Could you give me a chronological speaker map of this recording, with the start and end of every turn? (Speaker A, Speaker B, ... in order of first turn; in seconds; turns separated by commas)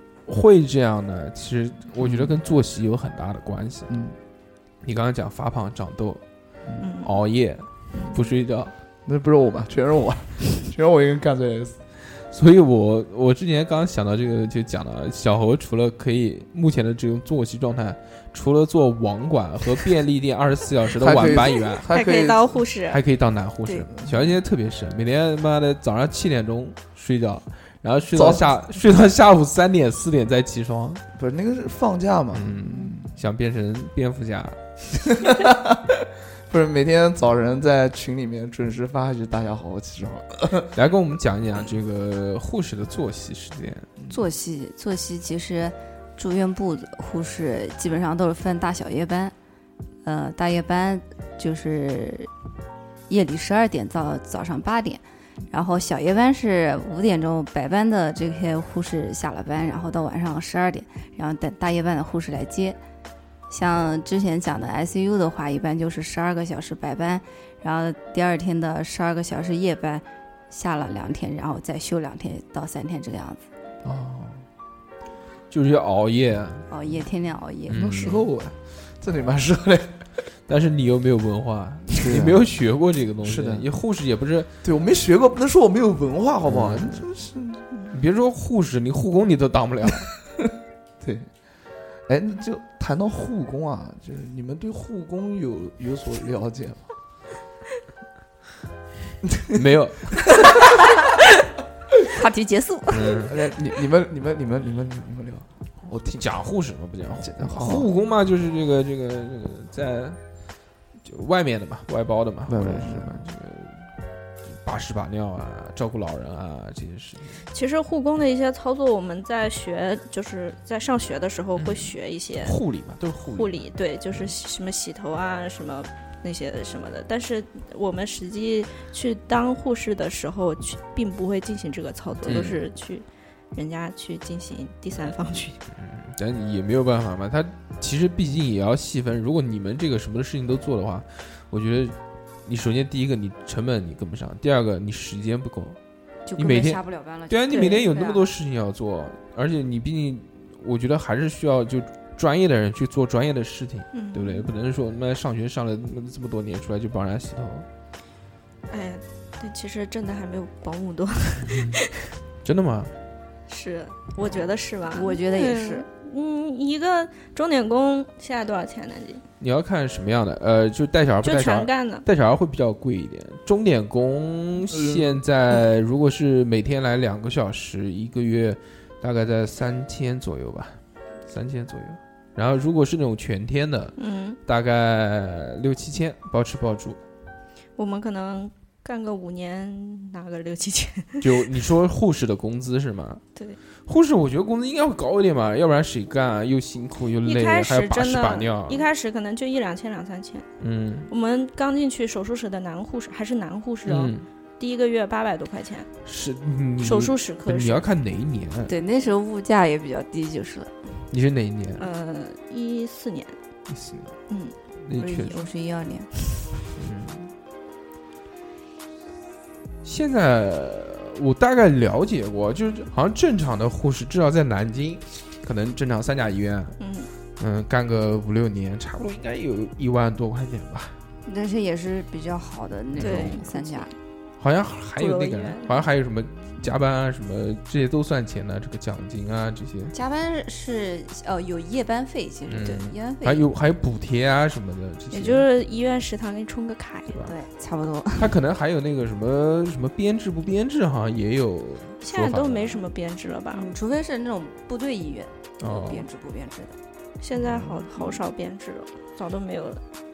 Speaker A: 0.3-3.9, Speaker B: 2.0-2.4, Speaker B: 3.9-4.2, Speaker A: 4.8-6.2, Speaker C: 6.8-7.2, Speaker A: 7.0-8.7, Speaker B: 9.1-11.8, Speaker A: 12.3-21.9, Speaker B: 21.0-22.6, Speaker C: 21.9-23.0, Speaker A: 22.9-31.0, Speaker B: 23.9-24.3, Speaker B: 28.1-28.4, Speaker B: 31.1-33.1, Speaker A: 32.3-34.6, Speaker B: 35.0-40.7, Speaker A: 40.7-43.9, Speaker D: 44.1-49.3, Speaker D: 50.0-52.3, Speaker D: 53.1-62.8, Speaker D: 63.5-73.4, Speaker B: 73.8-74.4, Speaker A: 75.5-76.7, Speaker D: 76.7-78.0, Speaker A: 77.7-78.2, Speaker B: 77.7-80.0, Speaker A: 80.5-84.5, Speaker B: 81.9-82.5, Speaker B: 83.2-83.7, Speaker B: 84.6-87.6, Speaker A: 86.4-87.1, Speaker A: 87.9-90.1, Speaker B: 91.0-91.3, Speaker B: 92.1-96.9, Speaker B: 99.2-99.6, Speaker A: 99.5-100.5, Speaker D: 102.1-103.3, Speaker A: 102.9-103.4, Speaker B: 103.3-106.3, Speaker A: 106.2-110.2, Speaker B: 107.2-107.9, Speaker A: 111.0-113.9, Speaker B: 112.5-113.2, Speaker A: 114.5-117.4, Speaker C: 117.5-122.6, Speaker A: 121.5-124.3, Speaker C: 123.3-135.6, Speaker A: 132.2-132.6, Speaker A: 135.7-145.8, Speaker D: 146.2-148.3, Speaker A: 146.4-157.7, Speaker C: 153.9-154.5, Speaker C: 158.7-162.1, Speaker A: 161.4-161.8, Speaker A: 162.4-162.9, Speaker C: 163.5-169.2, Speaker D: 164.9-165.9, Speaker A: 169.4-187.0, Speaker C: 171.2-172.0, Speaker B: 174.7-175.2, Speaker C: 184.0-184.4, Speaker C: 187.8-191.3, Speaker A: 191.2-193.2, Speaker A: 193.9-198.9, Speaker C: 197.2-200.5, Speaker A: 200.6-201.1, Speaker C: 201.1-205.9, Speaker A: 203.9-204.2, Speaker A: 206.0-208.7, Speaker C: 206.8-207.9, Speaker D: 208.7-210.9, Speaker A: 211.1-211.8, Speaker C: 211.8-213.3, Speaker A: 213.7-214.1, Speaker A: 214.8-215.5, Speaker D: 214.9-216.1, Speaker A: 216.8-217.3, Speaker A: 219.8-226.8, Speaker C: 226.8-227.1, Speaker A: 227.4-231.0, Speaker D: 231.2-233.9, Speaker A: 232.9-233.4, Speaker C: 233.0-233.9, Speaker A: 234.4-239.9, Speaker C: 235.0-235.8, Speaker D: 239.9-243.5, Speaker A: 242.5-245.5, Speaker C: 245.1-247.2, Speaker D: 247.2-248.3, Speaker A: 248.2-252.8, Speaker C: 252.0-253.7, Speaker D: 253.5-256.8, Speaker A: 255.6-256.1, Speaker C: 257.2-259.8, Speaker D: 257.9-258.2